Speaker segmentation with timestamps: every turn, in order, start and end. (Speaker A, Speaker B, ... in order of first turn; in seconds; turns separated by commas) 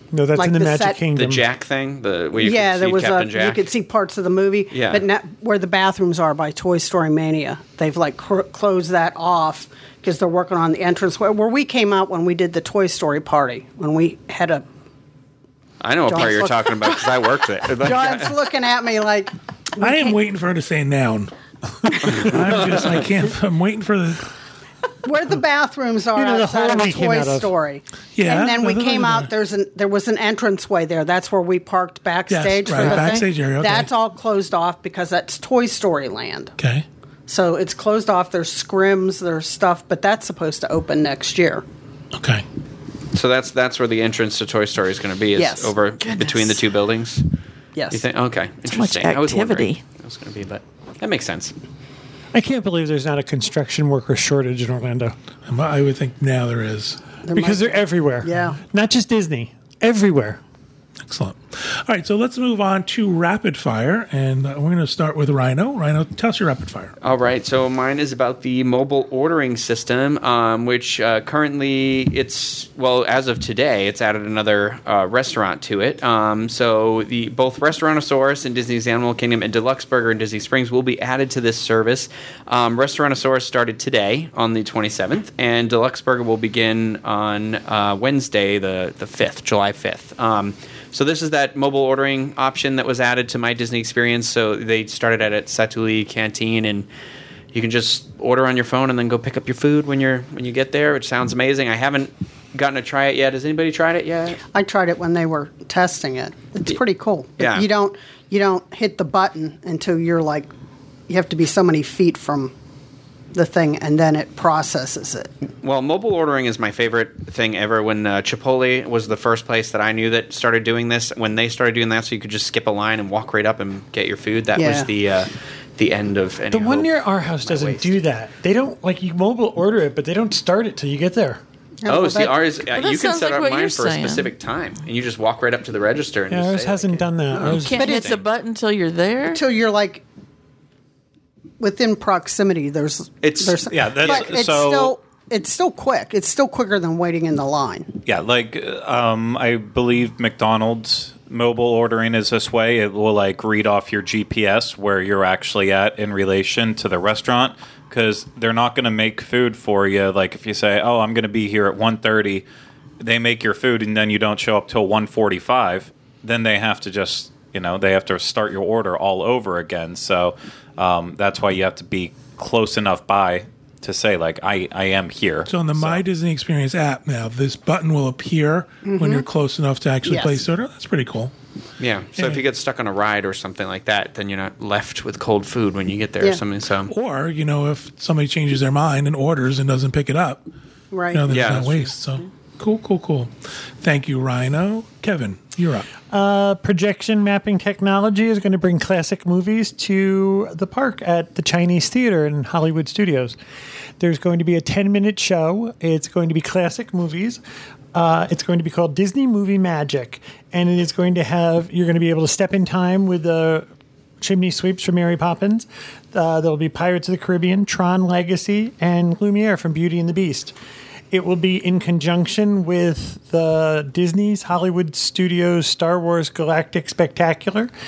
Speaker A: 0.1-1.4, Speaker B: 0.3-1.0, Speaker C: 1.1-3.7, Speaker B: 2.4-14.7, Speaker C: 4.7-5.0, Speaker C: 15.8-18.4, Speaker B: 16.1-17.0, Speaker B: 17.8-20.2, Speaker D: 19.8-21.3, Speaker D: 21.8-24.3, Speaker B: 25.0-36.5, Speaker A: 26.1-27.5, Speaker D: 28.1-29.3, Speaker D: 32.3-33.9, Speaker D: 36.6-36.8, Speaker B: 37.3-41.6, Speaker D: 42.1-42.4, Speaker C: 43.1-47.2, Speaker B: 45.4-45.7, Speaker E: 46.0-46.6, Speaker B: 47.8-48.0, Speaker C: 47.9-51.5, Speaker E: 48.6-49.8, Speaker A: 52.3-55.1, Speaker D: 55.5-57.0, Speaker B: 57.2-58.6, Speaker A: 57.3-60.4, Speaker D: 61.0-66.9, Speaker C: 67.0-96.9, Speaker C: 97.5-104.4, Speaker B: 104.5-110.5, Speaker C: 107.4-107.7, Speaker B: 111.1-112.5, Speaker B: 113.3-115.3, Speaker C: 115.6-128.0, Speaker B: 124.5-124.9, Speaker A: 126.5-131.4, Speaker B: 131.8-132.4, Speaker C: 131.9-138.2, Speaker E: 132.7-134.3, Speaker A: 136.3-137.9, Speaker B: 137.4-138.2, Speaker E: 137.4-139.4, Speaker B: 139.3-140.0, Speaker B: 141.6-147.9, Speaker C: 143.2-144.2, Speaker F: 143.7-144.9, Speaker F: 148.1-162.4, Speaker F: 163.0-176.0, Speaker D: 175.4-181.3, Speaker B: 178.8-179.2, Speaker B: 180.0-180.4, Speaker C: 181.8-186.9, Speaker D: 182.2-182.4, Speaker D: 186.9-190.4, Speaker B: 190.9-191.3, Speaker D: 191.1-195.9, Speaker C: 191.3-191.9, Speaker A: 196.1-203.3, Speaker A: 204.0-207.4, Speaker A: 207.9-213.7, Speaker A: 214.2-220.5, Speaker A: 221.1-227.7